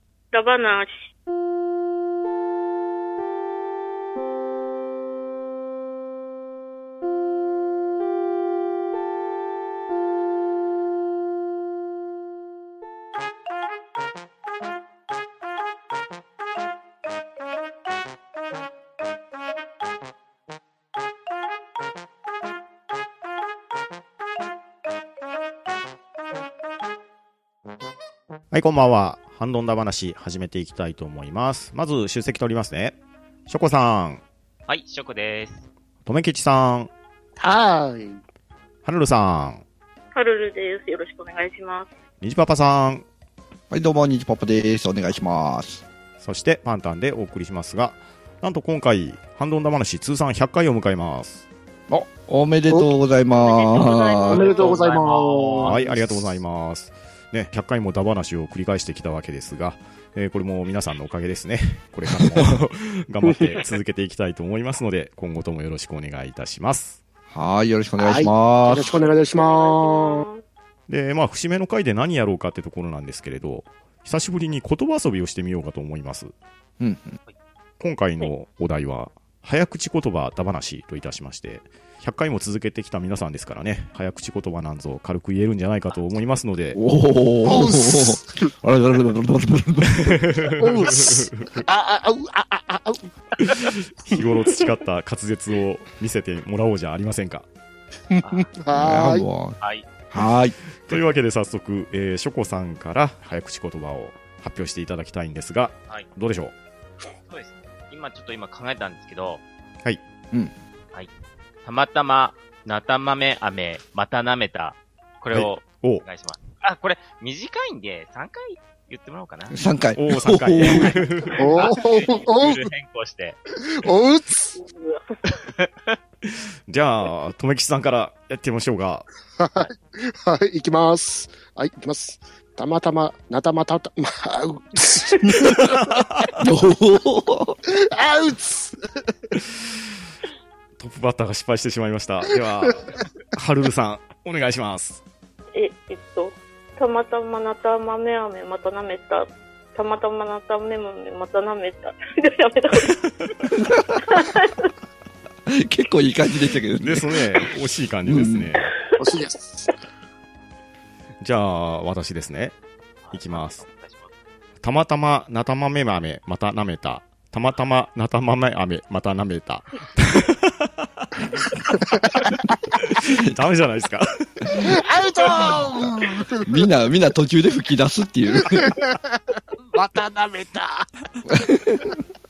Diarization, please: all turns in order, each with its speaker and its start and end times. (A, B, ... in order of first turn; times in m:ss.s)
0:00.3-0:01.0 A
0:28.5-0:34.2 B
0:34.7-0:35.7 C
0:36.0-0:36.9 B
0:37.4-0:38.2 D
0:38.8-0:39.6 B
0:40.1-0:41.9 A
0:42.2-0:43.1 B
0:43.7-0:45.8 E
0:46.2-0:51.4 B
0:51.9-0:54.6 E
0:53.3-0:54.8 A
0:54.3-0:55.8 C
0:54.3-0:55.8 D
0:55.6-1:07.0 B
1:02.2-1:02.5 E
1:03.2-1:03.6 D
1:07.3-1:09.0 E
1:08.0-1:10.3 D
1:09.2-1:10.4 A
1:10.9-1:16.3 B
1:16.8-1:17.2 E
1:17.8-1:26.8 B
1:26.7-1:30.2 E
1:27.4-1:28.5 D
1:30.0-1:31.7 B
1:30.6-1:33.1 D
1:33.4-1:37.5 B
1:38.1-1:39.3 D
1:38.2-1:38.5 C
1:38.7-1:39.6 E
1:40.1-1:40.6 E
1:40.8-1:46.5 B
1:47.3-1:49.4 C
1:51.6-1:59.6 C
1:55.3-1:56.0 B
1:59.5-2:01.0 E
2:00.0-2:01.7 B
2:01.4-2:02.7 D
2:01.4-2:03.4 C
2:03.6-2:04.6 D
2:04.6-2:05.4 A
2:05.3-2:05.9 C
2:06.2-2:09.1 B
2:09.4-2:15.8 D
2:15.4-2:16.3 B
2:16.4-2:17.6 E
2:17.8-2:19.4 D
2:20.8-2:25.0 B
2:25.5-2:33.0 A
2:33.6-2:34.0 E
2:34.1-2:34.5 A
2:35.5-2:37.4 E
2:36.8-2:38.7 B
2:38.0-2:38.5 E
2:39.0-2:39.7 D
2:41.2-2:42.6 B
2:43.0-2:44.1 C
2:43.1-2:43.6 B
2:44.6-2:51.4 B
2:52.8-2:54.7 B
2:54.5-2:56.5 D
2:56.4-2:58.7 E
2:58.5-3:00.9 D
3:01.3-3:01.9 E